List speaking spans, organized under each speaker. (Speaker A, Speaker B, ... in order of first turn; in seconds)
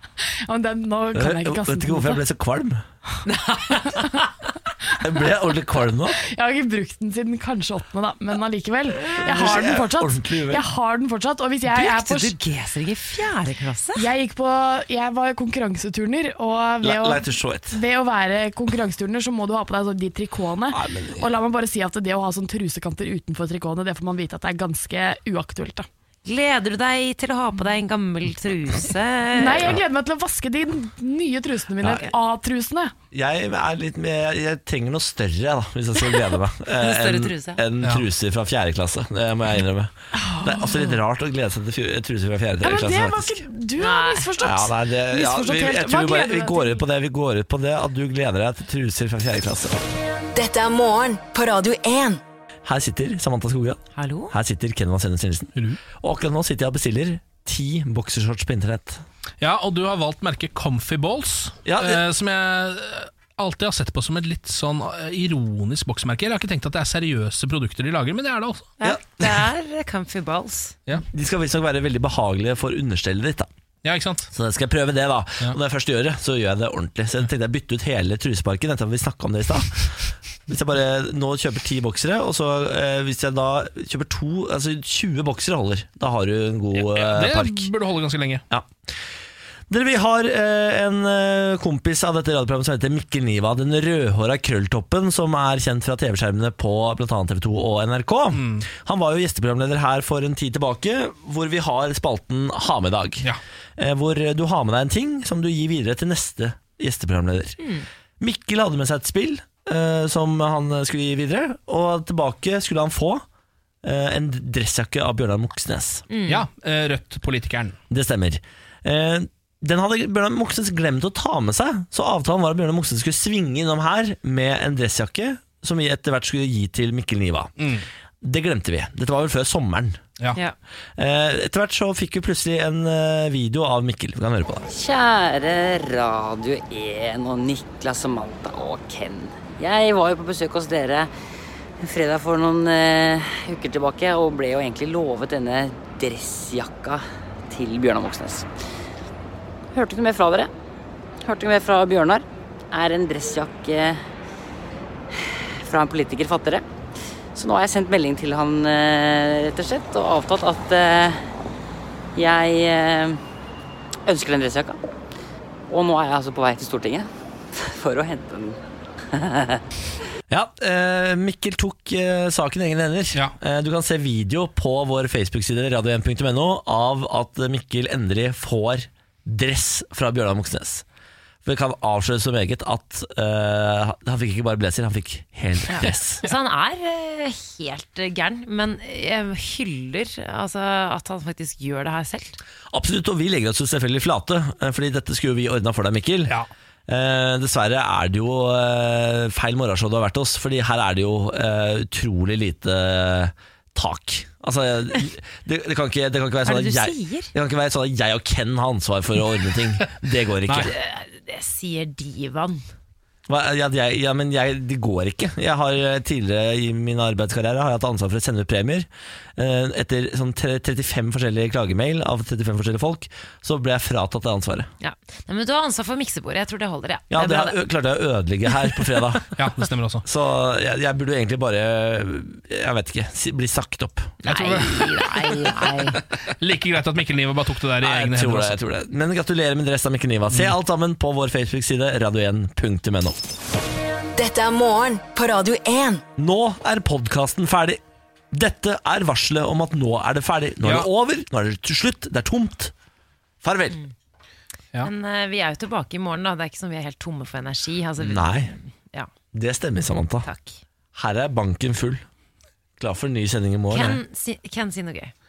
Speaker A: 0.5-2.2, 3.9-4.1, 6.1-12.3, 13.9-25.9, 29.3-32.9, 40.3-40.7, 42.6-46.8
Speaker B: 1.1-2.8, 5.0-6.2, 8.9-10.7, 16.8-17.8, 20.7-21.3, 33.1-43.4, 44.4-49.8, 52.6-59.0, 61.6-62.0, 68.8-69.5, 71.1-73.5, 74.3-87.7, 89.7-107.6, 108.2-113.2, 113.8-116.0, 117.9-127.5, 128.2-130.0, 131.0-134.7, 170.3-180.8, 181.4-186.2, 192.7-196.3, 196.9-210.7, 213.3-224.7, 227.1-229.3, 230.0-234.2, 237.8-243.2, 246.2-247.8, 248.3-252.7, 253.4-253.8, 258.0-258.5, 259.3-260.3, 260.9-262.0, 262.8-264.0
Speaker C: 3.3-4.2, 11.6-14.1, 26.2-29.8, 36.7-37.6, 43.8-44.3, 54.0-54.3, 68.8-70.8, 107.6-107.8, 116.1-116.4, 185.7-192.4, 206.4-207.3, 210.6-212.7, 224.8-227.6, 234.3-236.0, 254.8-259.1, 260.2-260.6, 263.7-265.1
Speaker D: 50.3-52.2, 244.2-246.0
Speaker E: 59.4-68.7, 73.8-74.3, 86.7-88.4, 98.3-98.7, 116.3-117.8, 127.6-127.8, 210.5-210.7, 229.4-230.0, 234.2-235.6, 236.4-238.6, 250.6-250.9
Speaker F: 134.7-141.1, 141.8-148.5, 149.7-150.5, 151.2-154.0, 155.1-156.6, 157.3-161.3, 162.2-163.2, 164.1-164.8, 165.7-168.6, 169.1-169.6